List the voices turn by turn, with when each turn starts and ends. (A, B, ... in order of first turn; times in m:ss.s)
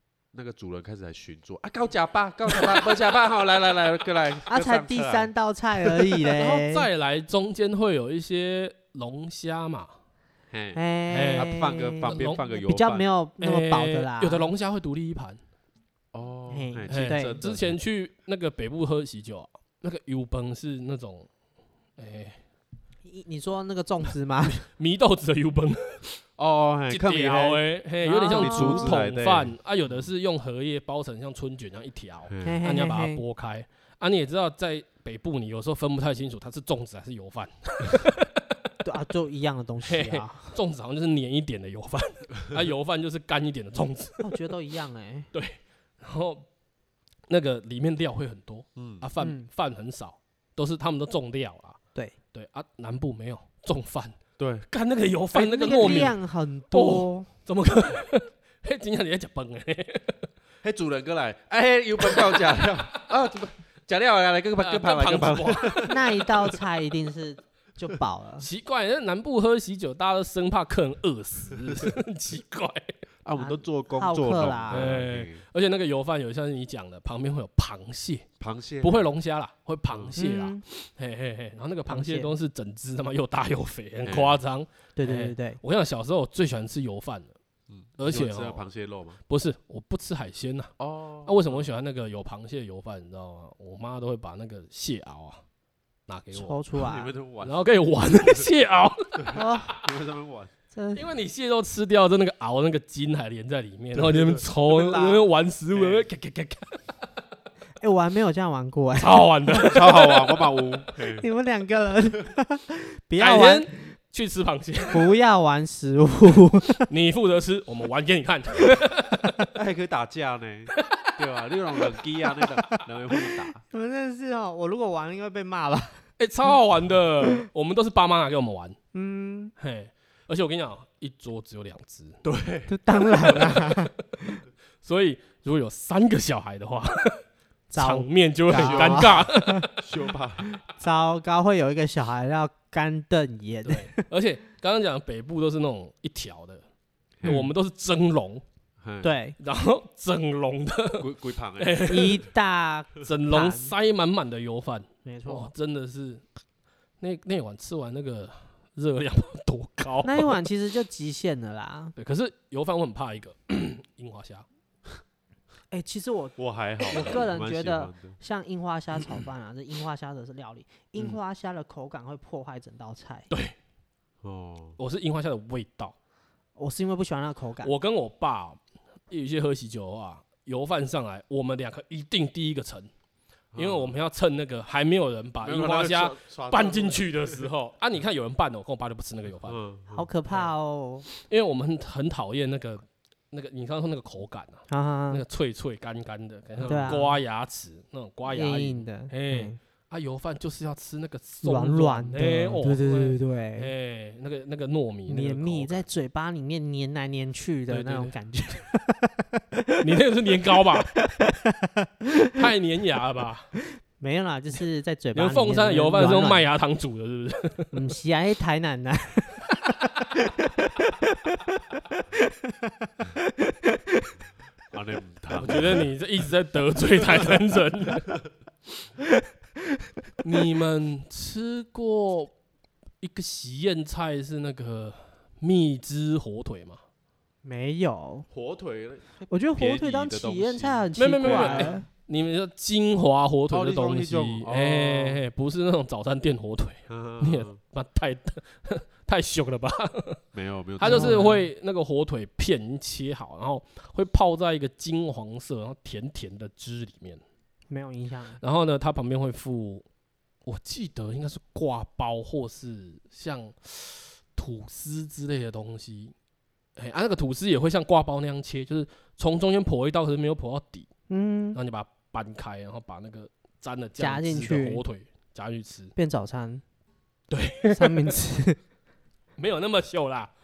0:00.3-0:05.3 A
0:04.5-0:06.9 B
0:06.3-0:09.9 C
0:10.5-0:13.0 A
0:10.7-0:14.5 B
0:11.1-0:11.5 C
0:12.0-0:12.4 C
0:13.4-0:15.4 C
0:16.1-0:17.8 A
0:16.5-0:17.4 B
0:16.9-0:21.3 C
0:22.0-0:22.4 C
0:23.0-0:24.6 B
0:24.6-0:26.2 C
0:26.4-0:27.6 A
0:26.9-0:38.3 C
0:28.0-0:29.0 B
0:28.3-0:30.1 A
0:32.3-0:32.6 A
0:32.4-0:33.2 B
0:38.8-0:40.6 B
0:39.8-0:44.4 C
0:44.2-0:45.3 B
0:45.3-0:46.4 C
0:47.3-0:51.8 C
0:48.8-0:49.0 A
0:49.2-0:49.4 B
0:52.3-0:54.2 C
0:54.4-0:54.6 A
0:54.7-0:56.2 C
0:55.3-0:57.3 B
0:55.8-0:56.1 A
0:56.7-1:00.2 C
1:00.6-1:06.0 A
1:02.0-1:02.4 C
1:04.6-1:06.3 C
1:05.9-1:08.5 B
1:08.4-1:12.9 C
1:11.5-1:11.9 A
1:13.2-1:15.4 A
1:13.4-1:14.9 B
1:14.7-1:18.2 C
1:18.4-1:19.1 A
1:18.8-1:27.3 C
1:19.9-1:20.2 A
1:20.2-1:20.6 B
1:21.9-1:22.3 B
1:24.0-1:24.4 A
1:25.0-1:25.6 B
1:27.7-1:29.2 A
1:28.0-1:28.6 C
1:29.3-1:30.7 C
1:30.8-1:31.7 A
1:31.2-1:35.4 C
1:36.1-1:36.6 C
1:36.3-1:37.1 B
1:36.7-1:37.6 A
1:37.4-1:39.4 C
1:38.1-1:38.4 A
1:39.2-1:40.5 A
1:39.3-1:39.7 B
1:40.7-1:41.0 B
1:40.9-1:46.8 C
1:43.9-1:46.0 A
1:47.8-1:49.8 B
1:49.0-1:50.3 C
1:49.6-1:51.2 A
1:51.2-1:53.7 B
1:53.2-1:55.1 C
1:54.9-1:56.9 B
1:56.9-1:59.4 C
1:59.5-2:03.6 A
2:03.7-2:06.0 B
2:06.2-2:08.8 C
2:08.9-2:09.5 B
2:09.6-2:12.2 C
2:12.2-2:12.7 A
2:12.7-2:14.4 B
2:13.2-2:13.9 C
2:14.8-2:17.2 C
2:17.7-2:19.7 B
2:17.8-2:19.7 C
2:18.5-2:20.5 A
2:20.6-2:24.0 B
2:23.6-2:26.6 C
2:27.2-2:27.5 A
2:27.2-2:28.4 C
2:28.8-2:29.1 A
2:29.0-2:29.3 B
2:29.4-2:32.2 C
2:31.0-2:31.9 A
2:31.9-2:33.7 B
2:33.0-2:36.2 C
2:35.0-2:35.5 B
2:37.0-2:40.4 C
2:40.0-2:41.9 B
2:42.0-2:44.4 C
2:45.7-2:53.3 B
2:46.4-2:48.2 A
2:54.2-2:54.8 A
2:54.8-2:55.9 C
2:56.6-2:57.7 B
2:57.6-2:58.6 C
2:59.1-3:02.9 C
3:03.5-3:04.0 A
3:03.5-3:09.6 C
3:05.4-3:07.4 A
3:09.4-3:10.0 A
3:09.9-3:11.1 B
3:11.2-3:25.8 C
3:14.7-3:15.2 B
3:16.6-3:17.0 A
3:16.6-3:17.2 B
3:18.3-3:19.6 B
3:21.4-3:23.7 B
3:25.1-3:29.8 B
3:27.7-3:28.1 C
3:29.8-3:31.0 C
3:30.9-3:32.4 B
3:32.3-3:33.5 C
3:34.0-3:36.5 B
3:35.1-3:37.7 C
3:37.7-3:41.4 B
3:42.8-3:43.8 B
3:44.7-3:45.9 A
3:45.4-3:48.1 C
3:50.2-3:52.3 C
3:53.0-3:56.8 C
3:57.4-3:58.3 B
3:58.3-4:01.7 A
3:59.2-4:01.8 B
4:01.0-4:10.2 C
4:03.5-4:05.2 A
4:06.9-4:07.6 A
4:10.3-4:11.3 A
4:10.8-4:17.2 C
4:10.8-4:11.4 B
4:17.7-4:18.4 B
4:18.4-4:19.8 C
4:20.4-4:26.1 C
4:26.8-4:30.9 C
4:31.1-4:31.6 B
4:31.5-4:35.9 C
4:34.0-4:34.8 B
4:36.0-4:36.6 B
4:37.3-4:38.1 C
4:37.7-4:38.6 B
4:39.4-4:40.3 C